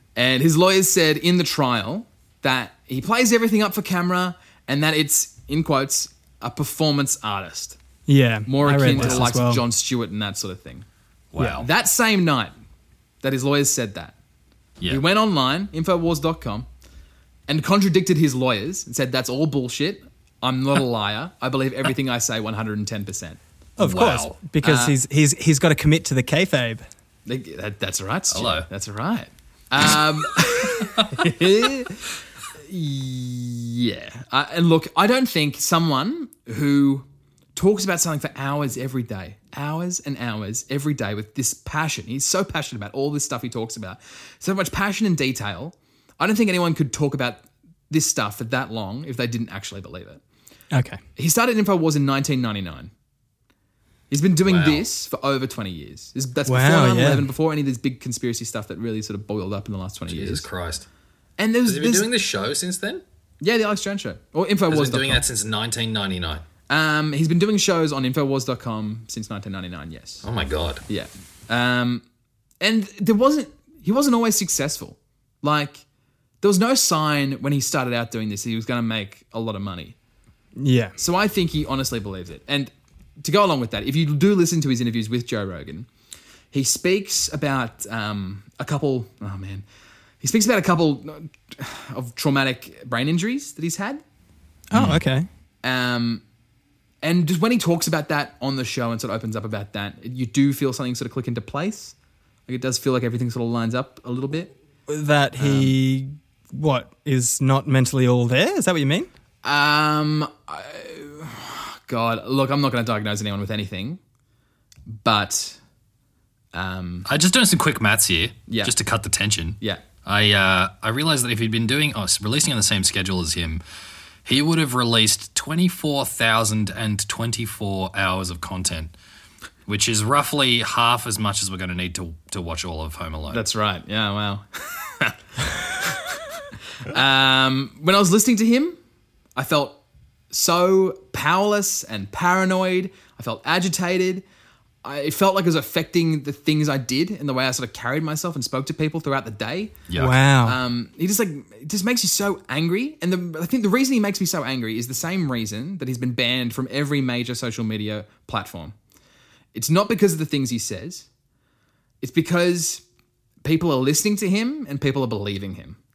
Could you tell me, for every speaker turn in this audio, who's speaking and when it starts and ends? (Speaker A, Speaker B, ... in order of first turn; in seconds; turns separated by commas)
Speaker A: 0.2-7.8, Speaker B: 8.1-9.6, Speaker A: 8.5-10.8, Speaker C: 8.9-9.3, Speaker C: 11.3-11.7, Speaker A: 11.5-12.5, Speaker A: 13.2-14.2, Speaker A: 14.9-16.7, Speaker A: 17.5-23.4, Speaker B: 23.8-26.8, Speaker C: 23.8-24.4, Speaker A: 24.6-25.0, Speaker A: 27.3-32.0, Speaker C: 28.3-28.7, Speaker C: 30.8-31.1, Speaker A: 32.6-50.2, Speaker B: 50.7-51.0, Speaker A: 51.2-52.9, Speaker A: 54.1-60.5, Speaker C: 54.5-54.9, Speaker B: 56.5-57.3, Speaker C: 60.1-60.9, Speaker A: 61.4-62.1, Speaker C: 61.6-63.0, Speaker A: 63.4-65.2, Speaker C: 64.7-66.5, Speaker A: 66.7-70.3, Speaker C: 70.2-70.8, Speaker A: 70.9-72.0, Speaker A: 72.6-75.8, Speaker A: 76.4-80.0, Speaker B: 80.6-81.0, Speaker A: 81.0-85.9, Speaker A: 86.5-89.7, Speaker A: 90.2-94.0, Speaker B: 94.7-95.3, Speaker C: 94.7-95.0, Speaker A: 95.6-96.2, Speaker A: 97.0-102.0, Speaker A: 102.5-104.5, Speaker B: 104.9-109.1, Speaker A: 105.4-105.7, Speaker A: 109.4-114.0, Speaker A: 114.9-115.6, Speaker A: 116.5-117.1, Speaker C: 117.1-123.6, Speaker A: 118.5-118.7, Speaker C: 124.2-128.9, Speaker C: 129.7-133.4, Speaker A: 133.3-136.2, Speaker A: 136.8-138.8, Speaker A: 139.4-139.8, Speaker A: 140.3-144.2, Speaker A: 144.8-149.8, Speaker C: 149.9-150.2, Speaker B: 149.9-150.6, Speaker A: 150.4-158.8, Speaker A: 159.5-161.1, Speaker A: 162.0-162.8, Speaker A: 163.4-165.8